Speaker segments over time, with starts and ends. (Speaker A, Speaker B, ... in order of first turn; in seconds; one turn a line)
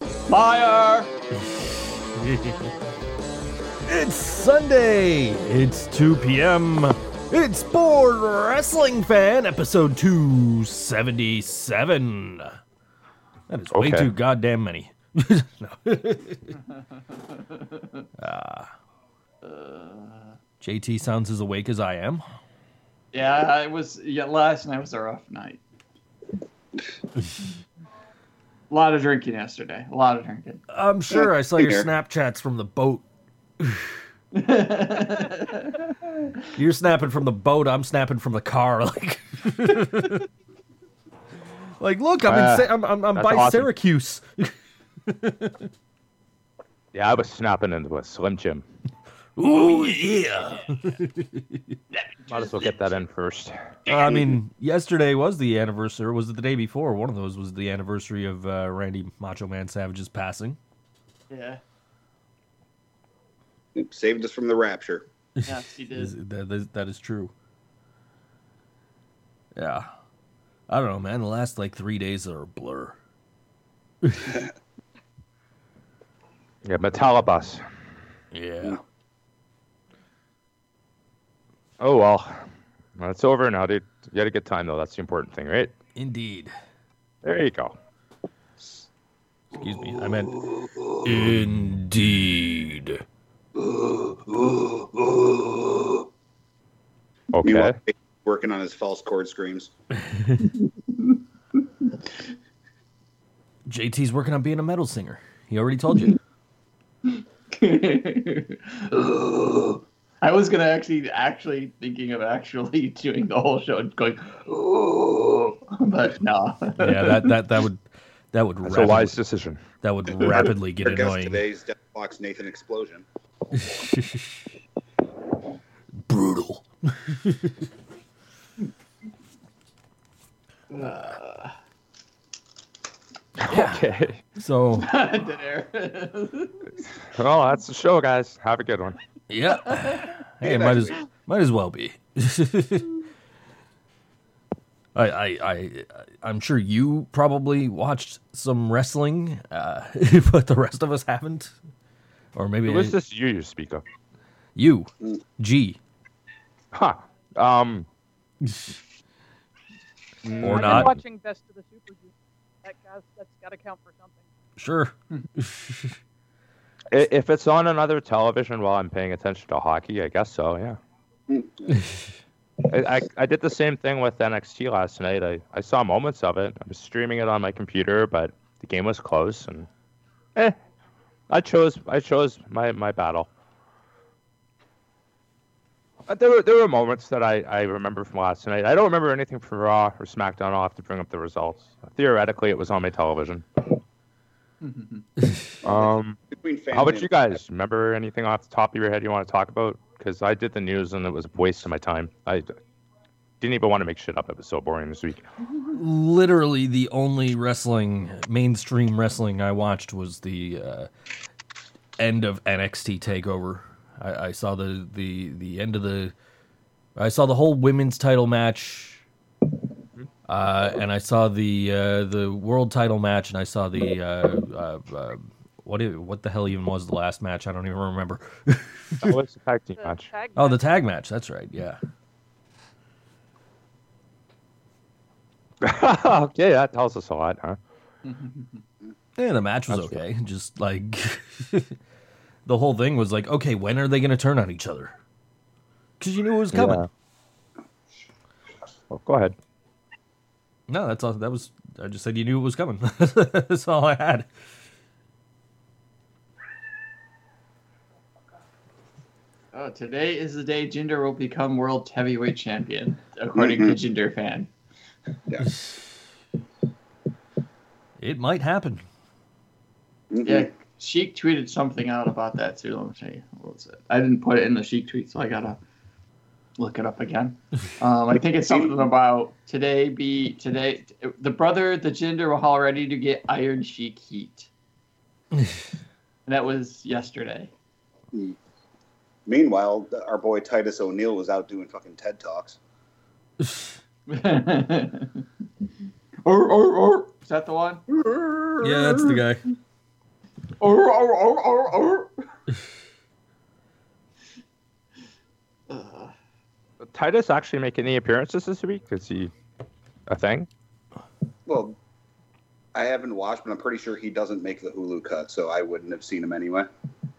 Speaker A: 0.3-1.1
Speaker B: 1.4-2.7
Speaker B: 3.9-12.6
Speaker B: 13.5-16.5
Speaker C: 13.7-14.1
Speaker A: 16.5-18.1
Speaker B: 18.2-18.7
Speaker A: 19.4-20.4
Speaker B: 20.6-22.2
Speaker A: 23.1-25.6
Speaker A: 28.7-30.6
Speaker B: 30.7-33.0
Speaker D: 31.1-31.9
Speaker B: 33.6-34.0
Speaker A: 34.3-36.5
Speaker B: 36.5-40.2
Speaker B: 41.8-45.7
Speaker C: 42.3-43.7
Speaker C: 46.9-48.6
Speaker B: 49.4-51.8
Speaker A: 52.3-52.7
Speaker C: 52.3-53.8
Speaker B: 53.9-60.6
Speaker A: 61.3-61.6
Speaker D: 63.7-65.0
Speaker B: 65.4-67.3
Speaker A: 65.4-66.1
Speaker B: 69.5-69.9
Speaker B: 70.7-73.0
Speaker B: 74.0-74.4
Speaker C: 76.6-77.6
Speaker B: 78.3-78.8
Speaker C: 81.8-82.5
Speaker C: 83.0-85.7
Speaker B: 86.0-86.5
Speaker C: 87.2-87.7
Speaker B: 89.5-90.4
Speaker B: 91.0-93.0
Speaker D: 94.3-94.7
Speaker C: 97.3-97.7
Speaker D: 97.4-99.7
Speaker B: 100.0-100.4
Speaker A: 100.4-101.2
Speaker B: 103.7-106.2
Speaker A: 107.1-117.3
Speaker B: 116.8-119.2
Speaker C: 118.6-119.6
Speaker B: 119.8-121.4
Speaker D: 120.1-123.0
Speaker B: 123.6-124.4
Speaker B: 126.0-127.6
Speaker A: 130.7-131.5
Speaker C: 133.4-134.2
Speaker B: 133.5-133.8
Speaker B: 134.3-134.9
Speaker A: 134.8-136.7
Speaker C: 137.1-139.0
Speaker B: 139.3-142.9
Speaker D: 140.4-141.0
Speaker B: 144.9-151.5
Speaker B: 152.3-152.9
Speaker C: 152.6-153.8
Speaker B: 154.6-155.8
Speaker C: 156.7-157.8
Speaker B: 158.4-158.8
Speaker C: 160.3-160.9
Speaker B: 160.4-160.9
Speaker E: 160.4-162.1
Speaker E: 162.6-164.2
Speaker B: 164.6-166.0
Speaker C: 166.9-170.8
Speaker D: 171.3-171.8
Speaker C: 172.7-179.7
Speaker C: 181.3-183.3
Speaker C: 186.1-193.4
Speaker A: 194.6-195.0
Speaker D: 195.6-197.4
Speaker C: 195.6-196.2
Speaker C: 196.7-202.5
Speaker C: 203.4-205.2
Speaker B: 205.7-210.9
Speaker B: 212.0-216.1
Speaker B: 216.9-219.0
Speaker B: 220.3-229.1
Speaker C: 229.0-230.1
Speaker E: 229.8-230.6
Speaker B: 230.3-231.8
Speaker C: 235.6-237.6
Speaker A: 238.0-238.6
Speaker B: 239.2-241.8
Speaker C: 239.7-240.0
Speaker B: 242.4-244.9
Speaker B: 246.0-246.8
Speaker C: 246.5-246.9
Speaker C: 248.9-249.3
Speaker B: 250.7-254.3
Speaker A: 259.5-264.5
Speaker D: 263.4-263.7
Speaker D: 265.3-265.7
Speaker B: 268.0-268.8
Speaker D: 270.1-270.5
Speaker A: 270.2-275.6
Speaker A: 276.6-284.5
Speaker D: 278.4-278.9
Speaker A: 286.2-287.5
Speaker D: 288.1-288.4
Speaker D: 289.2-292.6
Speaker B: 293.4-293.7
Speaker A: 294.1-295.2
Speaker A: 296.2-297.8
Speaker D: 297.9-299.2
Speaker B: 298.6-299.4
Speaker A: 300.6-302.1
Speaker A: 305.7-306.1
Speaker C: 306.8-309.3
Speaker C: 310.1-310.5
Speaker D: 311.4-311.8
Speaker D: 312.7-316.7